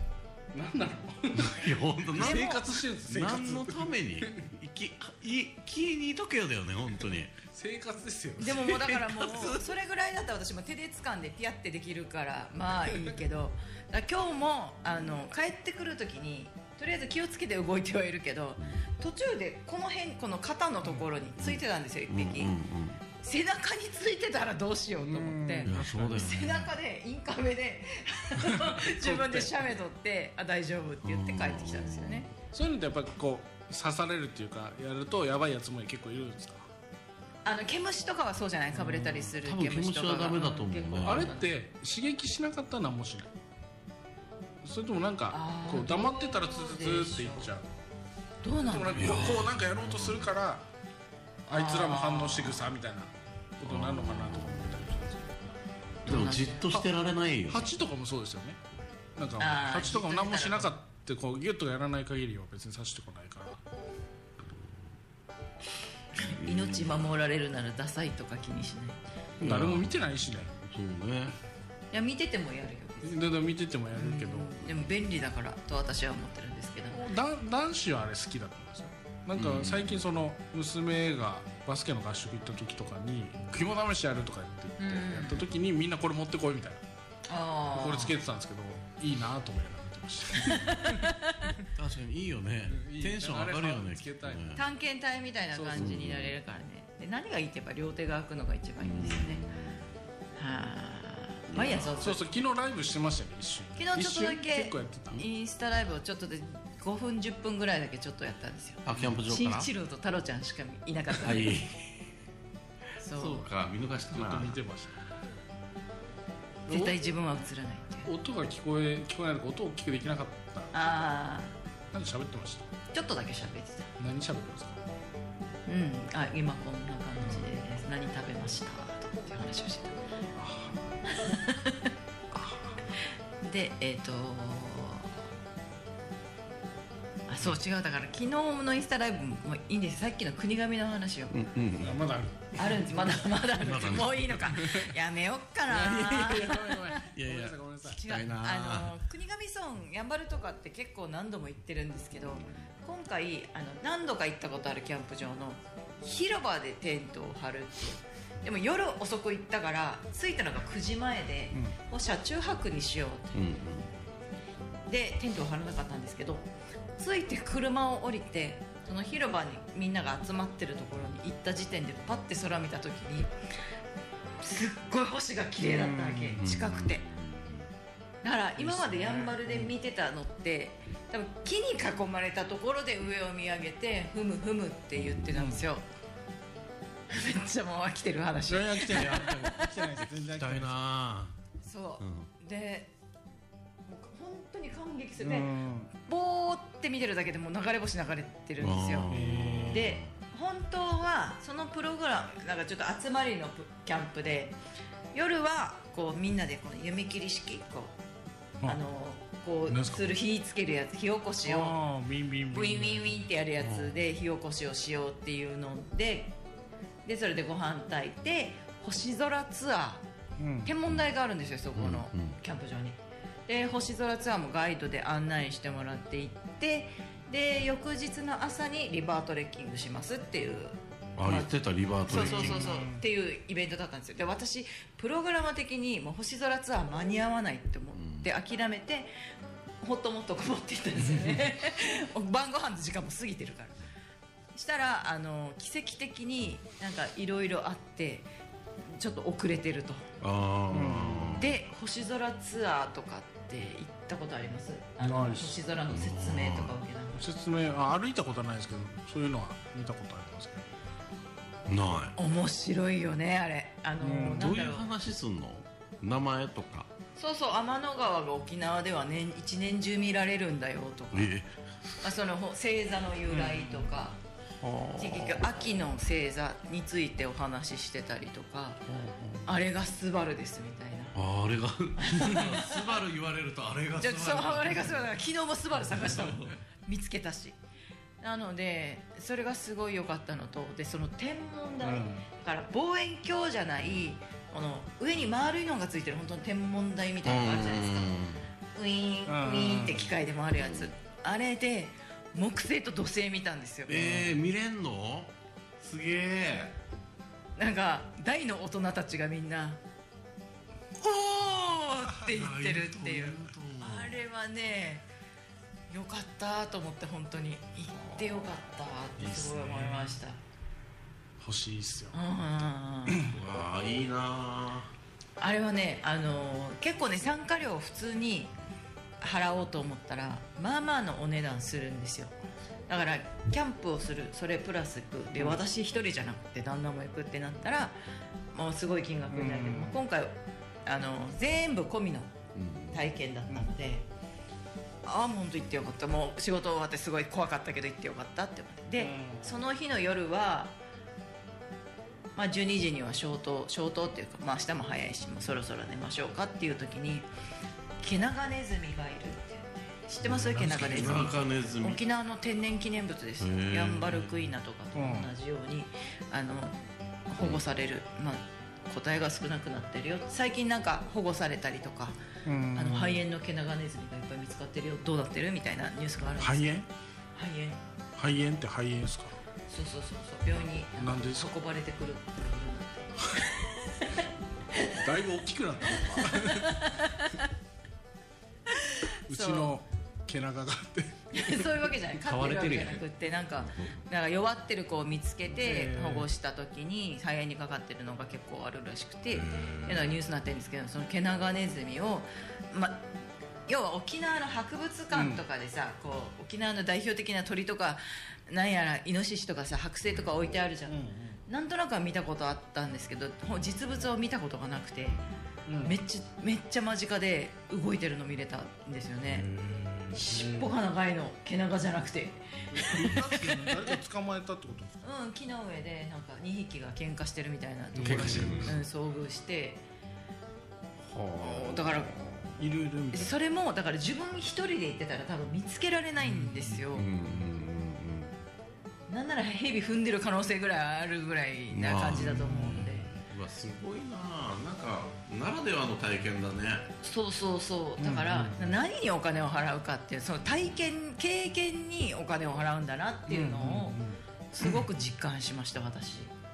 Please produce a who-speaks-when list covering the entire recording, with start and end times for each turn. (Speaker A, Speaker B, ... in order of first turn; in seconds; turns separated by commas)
Speaker A: 0.5-4.5, Speaker B: 1.3-7.4, Speaker C: 2.2-2.7, Speaker A: 7.4-8.8, Speaker C: 8.4-22.5, Speaker B: 8.5-9.7, Speaker B: 21.4-23.0, Speaker C: 23.2-32.3, Speaker A: 25.0-26.3, Speaker B: 25.6-26.7, Speaker A: 28.4-29.6, Speaker B: 31.0-32.3, Speaker A: 32.5-36.7, Speaker C: 37.5-41.5, Speaker A: 38.7-39.3, Speaker B: 39.3-41.3, Speaker A: 41.0-43.3, Speaker A: 44.6-47.7, Speaker C: 45.3-47.5, Speaker C: 48.4-49.4, Speaker A: 48.7-50.7, Speaker B: 49.0-50.3, Speaker A: 51.5-55.5, Speaker C: 51.5-52.6, Speaker B: 53.6-54.8, Speaker C: 56.1-56.8, Speaker B: 56.1-57.7, Speaker A: 57.5-58.6, Speaker A: 59.2-63.6, Speaker C: 59.4-60.7, Speaker C: 66.2-69.0, Speaker B: 66.3-67.1, Speaker B: 69.4-70.0, Speaker A: 69.4-70.5, Speaker B: 70.5-71.4, Speaker C: 71.9-73.2, Speaker A: 73.0-74.5, Speaker C: 74.0-77.1, Speaker A: 76.9-86.8, Speaker B: 79.3-80.0, Speaker C: 84.8-85.5, Speaker C: 87.3-88.2, Speaker A: 87.7-91.1, Speaker C: 90.4-91.6, Speaker B: 91.6-94.6, Speaker A: 92.7-94.5, Speaker C: 94.5-99.4, Speaker A: 95.5-96.0, Speaker B: 95.8-96.3, Speaker B: 98.8-99.8, Speaker C: 100.4-102.2, Speaker B: 101.5-102.0, Speaker A: 102.0-105.3, Speaker C: 103.8-111.5, Speaker B: 108.8-109.7, Speaker B: 111.2-111.9, Speaker C: 113.0-113.5, Speaker B: 113.2-114.6, Speaker A: 114.1-114.9, Speaker C: 116.7-118.1, Speaker A: 116.7-117.0, Speaker A: 118.0-120.7, Speaker C: 120.7-121.6, Speaker A: 121.9-122.7, Speaker C: 122.9-123.9, Speaker A: 124.0-124.8, Speaker C: 125.7-130.0, Speaker A: 130.4-130.8, Speaker C: 131.1-131.9, Speaker C: 133.4-135.1, Speaker C: 137.3-141.5, Speaker B: 141.3-142.0, Speaker A: 141.8-143.3, Speaker C: 142.6-147.0, Speaker B: 143.6-144.8, Speaker A: 145.7-148.0, Speaker B: 147.1-149.0, Speaker C: 147.8-163.4, Speaker B: 152.3-152.6, Speaker B: 163.3-164.0, Speaker C: 164.9-173.3, Speaker C: 174.4-177.0, Speaker A: 175.6-176.4, Speaker B: 176.4-177.7, Speaker C: 178.2-185.8, Speaker A: 178.6-179.7, Speaker B: 185.0-185.3, Speaker A: 185.3-185.7, Speaker C: 187.1-189.9, Speaker A: 188.5-190.8, Speaker B: 190.3-191.4, Speaker C: 191.6-192.9, Speaker B: 192.0-192.3, Speaker C: 193.9-199.2, Speaker A: 195.2-195.9, Speaker B: 198.6-200.1, Speaker A: 199.1-199.9, Speaker C: 199.7-204.6, Speaker C: 205.1-207.9, Speaker C: 208.7-211.8, Speaker A: 209.7-210.2, Speaker A: 211.4-213.1, Speaker C: 212.5-216.4, Speaker B: 213.6-214.0, Speaker C: 217.1-220.0, Speaker A: 220.4-220.7, Speaker C: 220.6-231.5, Speaker B: 221.8-222.4, Speaker B: 231.2-232.8, Speaker C: 232.1-239.1, Speaker A: 232.1-233.0, Speaker B: 237.9-238.3, Speaker C: 239.8-243.8, Speaker C: 244.5-248.3, Speaker C: 248.9-250.1, Speaker B: 250.2-251.5, Speaker A: 250.7-251.5, Speaker C: 251.4-257.2, Speaker A: 255.0-255.6, Speaker B: 255.9-256.7, Speaker A: 257.2-260.7, Speaker B: 261.7-262.1, Speaker C: 262.2-264.9, Speaker A: 264.0-264.6, Speaker B: 264.3-266.9, Speaker C: 267.2-271.4, Speaker B: 271.1-271.5, Speaker C: 272.0-274.2, Speaker A: 273.3-273.9, Speaker B: 274.6-275.4, Speaker C: 275.0-278.8, Speaker B: 278.9-279.4, Speaker C: 279.5-281.2, Speaker B: 281.1-285.1, Speaker C: 282.0-282.9, Speaker C: 284.0-287.6, Speaker B: 285.9-286.6, Speaker C: 288.2-298.1, Speaker A: 291.8-292.3, Speaker B: 297.2-298.4, Speaker C: 298.8-304.2, Speaker A: 299.3-300.1, Speaker B: 300.6-300.9, Speaker B: 303.9-306.8, Speaker A: 303.9-304.3, Speaker C: 307.6-309.8, Speaker C: 311.0-315.1, Speaker B: 312.2-314.2, Speaker C: 315.9-320.4, Speaker A: 319.2-320.1, Speaker A: 321.4-322.2, Speaker C: 322.1-323.3, Speaker A: 323.1-323.4, Speaker B: 323.2-324.9, Speaker C: 325.4-328.5, Speaker C: 329.2-332.4, Speaker C: 332.9-338.0, Speaker C: 338.5-340.3, Speaker A: 339.3-340.0, Speaker C: 340.9-342.3, Speaker B: 342.6-343.0, Speaker C: 342.9-344.1, Speaker C: 345.1-350.8, Speaker A: 349.0-349.5, Speaker C: 352.4-357.3, Speaker C: 358.0-366.8, Speaker A: 360.2-361.4, Speaker B: 360.7-362.0, Speaker B: 363.4-364.3, Speaker A: 364.9-365.3, Speaker C: 367.3-372.2, Speaker A: 372.4-373.2, Speaker C: 372.7-376.7, Speaker A: 376.4-376.9, Speaker C: 377.4-377.8, Speaker A: 378.2-379.4, Speaker C: 379.7-385.0, Speaker A: 381.0-381.5, Speaker A: 384.9-386.9, Speaker C: 385.9-387.5, Speaker C: 388.7-389.7, Speaker A: 389.3-391.7, Speaker C: 391.3-403.1, Speaker B: 392.2-393.0, Speaker A: 395.6-396.3, Speaker B: 399.3-400.1, Speaker C: 403.7-415.2, Speaker A: 405.1-405.4, Speaker A: 410.9-411.4, Speaker A: 415.7-416.0, Speaker C: 415.8-419.5, Speaker A: 419.4-420.7, Speaker C: 420.1-423.9, Speaker A: 422.7-425.0, Speaker C: 425.0-429.8, Speaker A: 427.9-428.8, Speaker B: 428.0-428.8, Speaker B: 431.1-432.6, Speaker C: 431.4-432.1, Speaker A: 432.6-433.3, Speaker C: 433.1-437.1, Speaker A: 436.2-436.8, Speaker B: 436.9-438.4, Speaker C: 439.1-443.1, Speaker B: 441.7-446.9, Speaker A: 442.1-442.9, Speaker C: 447.0-454.0, Speaker A: 448.0-448.8, Speaker A: 453.3-454.2, Speaker C: 454.5-456.3